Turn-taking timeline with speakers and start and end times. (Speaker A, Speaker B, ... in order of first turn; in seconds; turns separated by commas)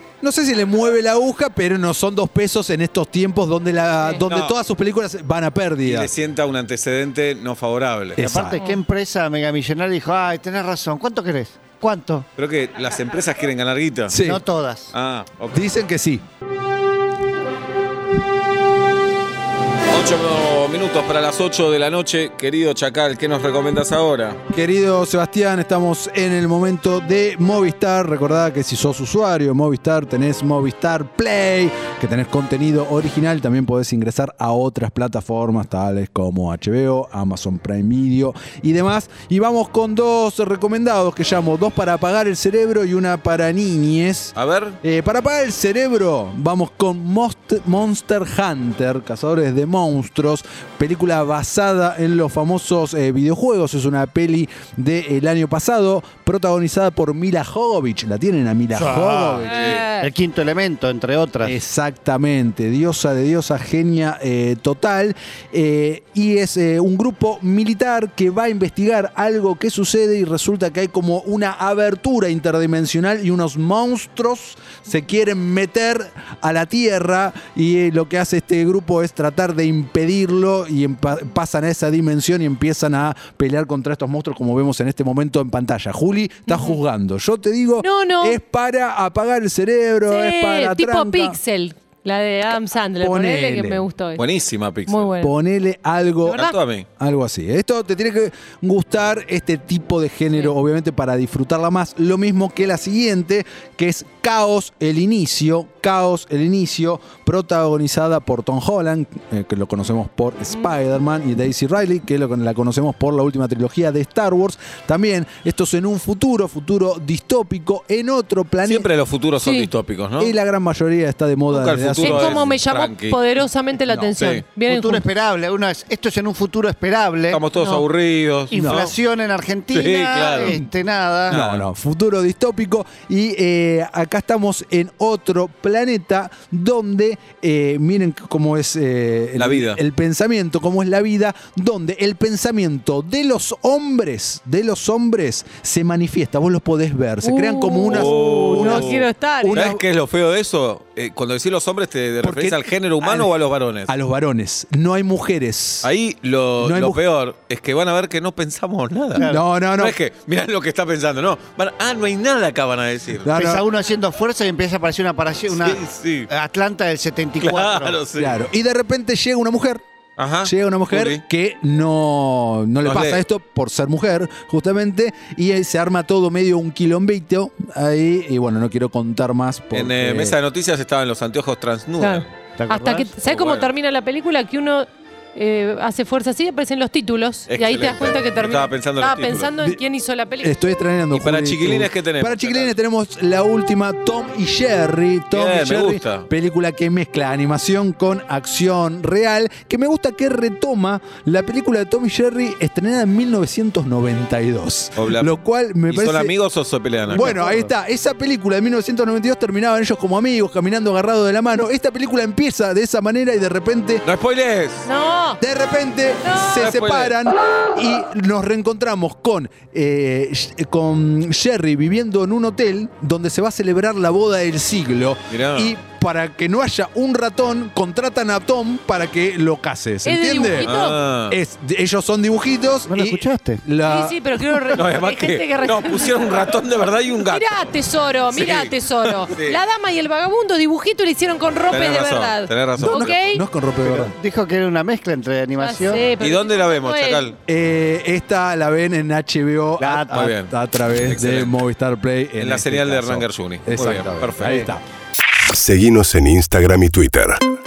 Speaker A: 0.2-6.1, Speaker B: 4.2-4.6, Speaker B: 5.8-8.2, Speaker A: 8.2-8.6, Speaker C: 8.2-12.3, Speaker D: 8.5-8.8, Speaker B: 12.4-14.2, Speaker A: 14.1-14.4, Speaker C: 14.2-14.9, Speaker B: 14.9-15.7, Speaker A: 15.5-16.2, Speaker B: 19.9-24.4, Speaker A: 24.5-59.7, Speaker B: 44.4-44.8, Speaker C: 58.7-61.6, Speaker D: 59.5-60.1, Speaker B: 59.5-59.9, Speaker A: 61.4-91.4, Speaker D: 86.5-86.8, Speaker D: 87.8-88.4, Speaker D: 90.0-94.2, Speaker A: 93.0-93.8, Speaker B: 94.2-95.2, Speaker D: 94.9-95.3, Speaker A: 95.2-118.9, Speaker B: 96.3-96.9, Speaker B: 118.6-120.3, Speaker D: 119.4-119.7, Speaker A: 120.2-122.5, Speaker B: 121.5-123.2, Speaker D: 122.0-125.0, Speaker A: 123.9-124.1, Speaker B: 124.2-124.5, Speaker C: 124.7-127.4, Speaker B: 127.3-128.9, Speaker D: 127.6-127.8, Speaker C: 128.5-131.4, Speaker A: 128.5-128.9, Speaker B: 129.7-130.6, Speaker B: 131.3-131.7, Speaker A: 131.3-149.8, Speaker B: 139.4-139.8, Speaker D: 147.2-149.6, Speaker B: 147.9-153.9, Speaker A: 152.2-153.3, Speaker A: 153.9-155.9, Speaker B: 155.8-163.3, Speaker A: 156.6-157.0, Speaker C: 159.2-159.4, Speaker A: 159.2-160.0, Speaker A: 163.2-163.7, Speaker C: 163.3-168.0, Speaker B: 165.5-166.3, Speaker B: 167.4-168.4, Speaker A: 168.1-169.8, Speaker B: 170.2-171.2, Speaker A: 170.4-180.4, Speaker B: 172.8-173.2, Speaker B: 179.7-182.3, Speaker D: 182.0-190.6, Speaker C: 182.6-183.1, Speaker B: 183.2-183.7, Speaker B: 187.5-189.5, Speaker A: 189.6-189.8, Speaker A: 190.4-206.3, Speaker B: 191.1-192.8, Speaker B: 195.3-196.3, Speaker B: 205.0-207.4, Speaker A: 207.1-214.0, Speaker C: 207.1-207.6, Speaker B: 214.0-214.9, Speaker D: 214.8-215.4, Speaker A: 215.4-230.7, Speaker D: 216.2-216.6, Speaker B: 216.5-217.2, Speaker B: 225.3-225.8, Speaker D: 230.0-231.0, Speaker B: 230.6-231.4, Speaker A: 231.3-234.7, Speaker C: 232.9-233.6, Speaker D: 233.8-236.5, Speaker B: 234.7-237.8, Speaker D: 237.3-243.4, Speaker B: 238.3-239.6, Speaker B: 241.7-243.2, Speaker A: 242.8-244.2, Speaker C: 243.8-246.1, Speaker D: 245.6-247.3, Speaker B: 246.2-247.4, Speaker A: 247.5-254.8, Speaker C: 249.8-250.2, Speaker B: 250.1-251.6, Speaker B: 252.4-254.8, Speaker E: 255.5-257.4